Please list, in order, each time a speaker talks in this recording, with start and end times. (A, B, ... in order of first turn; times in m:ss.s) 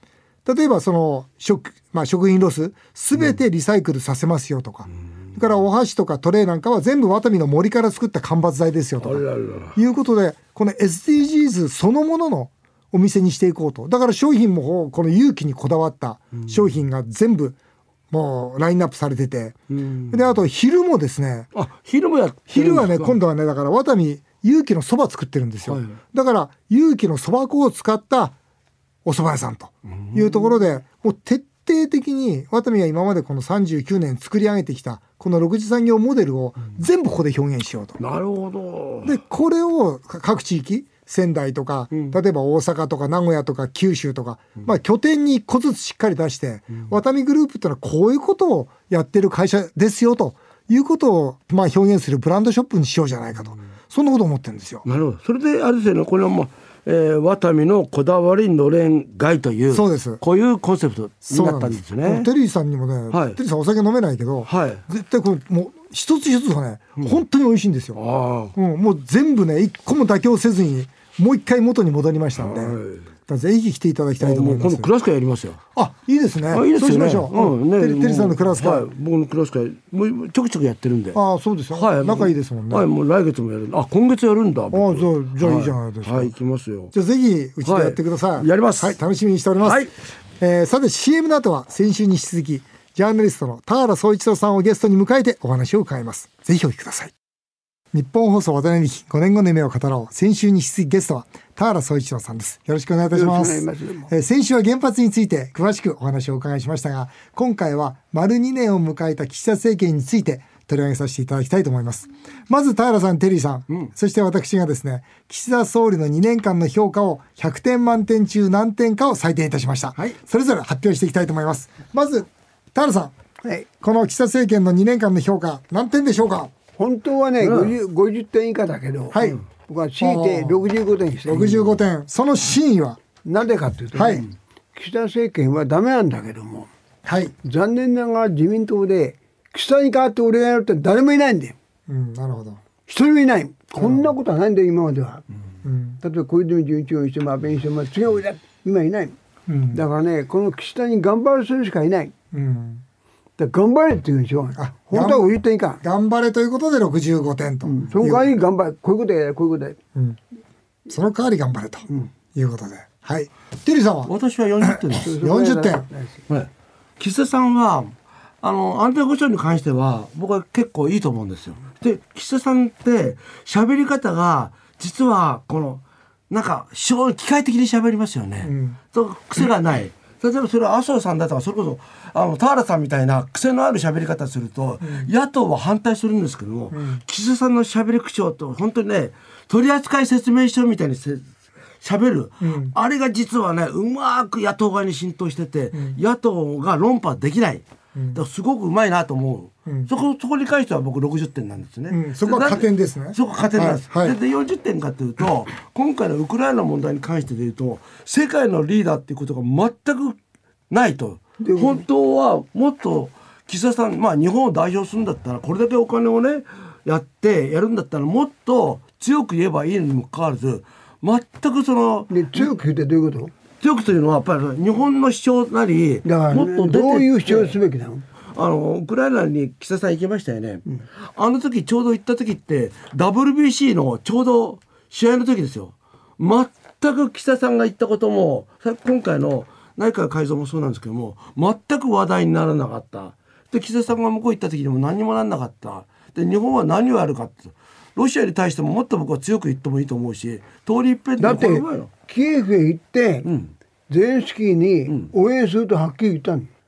0:00.4-0:17.6 A
0:09.0-0:09.8 B
0:18.1-0:19.6 A
0:19.7-0:20.2 B
0:20.1-0:21.5 A
0:21.5-0:23.2 B
0:22.5-0:28.3 A
0:25.7-0:25.9 B
0:29.0-0:38.0 A
0:30.0-0:30.4 B
0:38.0-0:39.2 B
0:39.0-0:54.8 A
0:54.8-1:02.3 B
0:59.7-1:00.2 A
1:01.3-1:08.0 A
1:03.1-1:03.4 B
1:04.4-1:04.8 B
1:08.0-1:08.5 B
1:08.5-1:14.9 A
1:12.4-1:13.0 B
1:14.2-1:15.6 B
1:15.7-1:18.9 A
1:16.5-1:21.2 B
1:21.1-1:22.9 A
1:21.7-1:26.9 B
1:24.7-1:26.3 A
1:26.9-1:29.8 A
1:27.6-1:29.0 B
1:29.6-1:29.9 B
1:30.4-1:37.1 A
1:37.9-2:03.1 A
1:43.1-1:44.1 C
2:03.8-2:06.5 A
2:06.8-2:11.5 C
2:07.4-2:07.7 B
2:09.1-2:09.4 A
2:10.0-2:10.6 A
2:11.2-2:13.0 A
2:13.2-2:16.7 C
2:13.9-2:14.2 A
2:17.0-2:17.3 A
2:17.4-2:21.5 C
2:21.9-2:22.6 A
2:22.9-2:25.2 C
2:25.6-2:26.0 A
2:26.0-2:29.1 C
2:29.5-2:29.8 A
2:29.7-2:32.1 C
2:32.3-2:32.8 A
2:33.4-2:35.8 C
2:34.6-2:35.2 A
2:35.8-2:38.3 A
2:37.6-2:39.8 C
2:40.9-2:45.8 A
2:44.0-2:45.1 B
2:45.0-2:46.2 C
2:46.3-3:11.2 B
2:58.4-2:58.8 A
3:04.8-3:05.1 A
3:06.7-3:07.0 A
3:11.8-3:30.2 B
3:12.4-3:12.7 A
3:18.0-3:18.2 A
3:21.9-3:24.2 A
3:30.7-3:42.5 B
3:31.4-3:31.8 C
3:42.1-3:43.3 C
3:43.6-3:47.5 B
3:46.0-3:48.0 C
3:48.3-4:11.9 B
4:11.2-4:13.3 C
4:13.2-4:13.5 B
4:13.9-4:16.5 C